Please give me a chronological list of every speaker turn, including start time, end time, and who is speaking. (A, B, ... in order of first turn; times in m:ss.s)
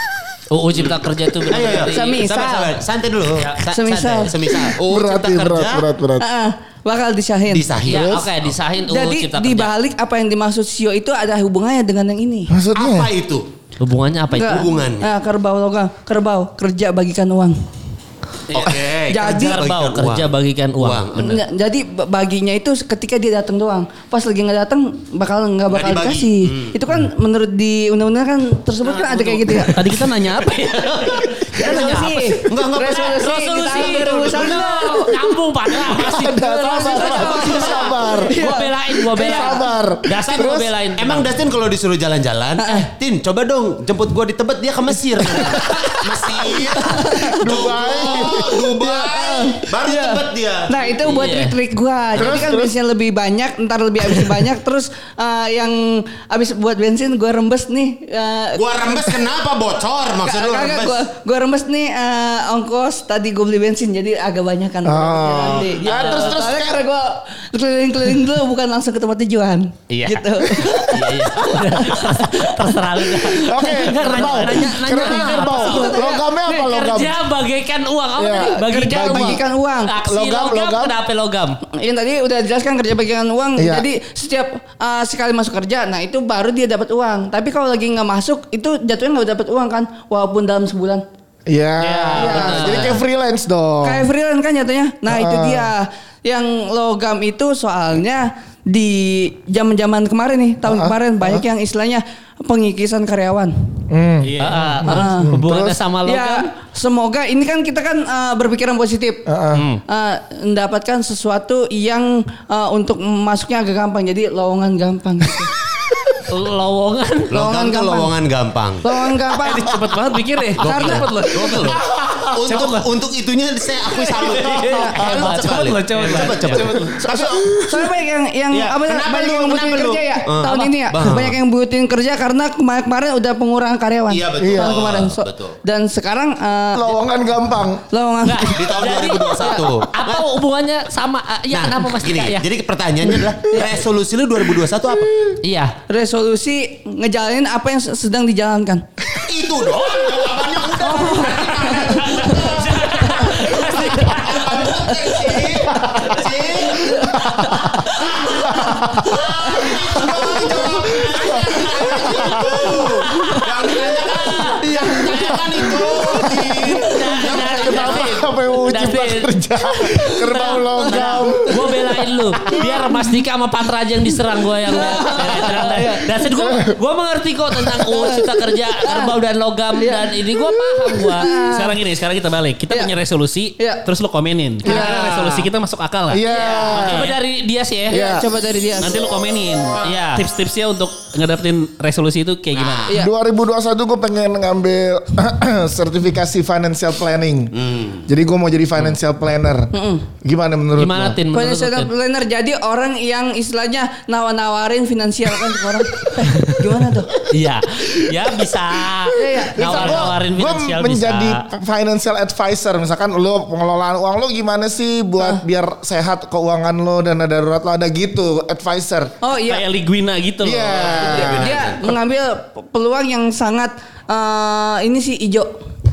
0:00.5-0:02.2 A
0:00.7-0:05.9 B
0:01.8-0:02.8 C
0:03.4-0:04.3 A
0:03.7-0:04.6 C
0:04.8-0:06.2 D
0:06.2-0:07.7 C
0:07.5-0:08.5 B
0:07.8-0:09.7 A
0:07.8-0:08.3 D
0:08.9-0:12.5 C
0:12.5-0:13.1 D
0:12.8-0:13.5 B
0:13.8-0:14.7 A
0:14.3-0:17.6 C
0:14.4-0:15.1 B
0:18.5-0:21.4 A
0:18.5-0:21.4 B
0:19.1-0:19.6 C
0:21.2-0:29.8 C
0:25.7-0:26.8 B
0:28.8-0:31.5 E
0:31.0-0:41.3 A
0:31.5-0:35.2 C
0:31.7-0:34.6 B
0:35.8-0:38.4 D
0:36.4-0:39.6 C
0:39.2-0:40.7 D
0:41.0-0:51.2 B
0:42.6-0:42.9 C
0:45.6-0:46.0 C
0:46.6-0:59.2 C
0:47.2-0:48.6 D
0:51.0-0:51.5 A
0:52.2-0:52.5 B
0:52.2-0:52.7 D
0:58.5-1:01.0 B
1:00.2-1:16.6 C
1:04.8-1:06.8 D
1:05.8-1:06.3 A
1:09.9-1:10.2 A
1:10.7-1:21.6 A
1:13.4-1:17.2 D
1:18.2-1:19.4 D
1:18.3-1:19.9 C
1:20.0-1:20.9 D
1:21.7-1:31.0 C
1:23.6-1:23.8 D
1:31.5-1:34.0 D
1:31.8-1:33.0 A
1:32.2-1:33.0 C
1:33.8-1:43.5 C
1:35.1-1:35.7 D
1:40.6-1:41.4 D
1:43.9-1:45.8 D
1:44.2-1:44.9 E
1:44.4-1:46.5 A
1:44.9-1:45.3 C
1:46.0-1:49.2 C
1:49.3-1:49.6 D
1:49.5-1:49.8 A
1:49.9-1:55.5 C
1:55.9-1:56.2 D
1:56.2-1:57.3 A
1:57.3-1:59.1 B
1:57.3-1:58.2 C
1:58.8-1:59.8 C
1:59.4-2:01.8 E
2:00.6-2:01.1 C
2:00.6-2:07.7 B
2:01.7-2:02.5 D
2:02.4-2:02.9 E
2:04.0-2:07.1 E
2:04.5-2:05.0 C
2:05.0-2:06.6 A
2:06.8-2:07.9 D
2:07.6-2:17.0 C
2:08.5-2:11.4 B
2:10.4-2:10.7 A
2:14.1-2:15.6 B
2:14.4-2:14.8 D
2:16.7-2:17.8 D
2:17.9-2:18.8 C
2:18.2-2:22.4 A
2:18.5-2:20.2 B
2:19.4-2:19.6 C
2:21.5-2:25.3 B
2:25.4-2:25.8 A
2:25.9-2:28.8 C
2:29.1-2:37.2 B
2:30.8-2:33.4 C
2:32.0-2:34.6 A
2:34.8-2:35.4 C
2:35.7-2:36.2 D
2:36.8-2:38.2 C
2:36.9-2:39.2 D
2:37.9-2:48.2 B
2:39.1-2:40.0 C
2:40.0-2:42.9 D
2:43.1-2:43.4 A
2:43.1-2:43.5 C
2:44.0-2:45.4 A
2:44.6-2:45.4 C
2:45.8-2:51.8 D
2:46.8-3:01.3 A
2:50.4-2:51.4 C
2:52.5-2:52.8 C
2:54.7-2:56.1 C
2:55.2-2:55.8 E
2:56.3-2:56.7 D
2:57.8-2:59.1 C
2:59.8-3:00.2 C
3:01.1-3:01.8 C
3:01.4-3:07.1 E
3:04.6-3:05.5 D
3:04.6-3:05.2 C
3:06.1-3:07.1 D
3:06.3-3:06.7 C
3:06.3-3:08.0 A
3:07.9-3:08.2 D
3:07.9-3:09.0 C
3:08.8-3:12.9 E
3:09.8-3:10.2 A
3:12.5-3:12.9 B
3:12.9-3:17.5 D
3:17.5-3:18.1 B
3:18.0-3:21.2 D
3:19.7-3:20.0 C
3:20.8-3:21.9 A
3:21.3-3:27.1 C
3:27.3-3:31.4 A
3:28.0-3:28.3 D
3:28.9-3:39.1 D
3:29.1-3:30.1 C
3:39.2-3:39.6 C
3:39.4-3:41.0 E
3:40.4-3:41.6 D
3:40.7-3:42.0 B
3:41.0-3:45.5 C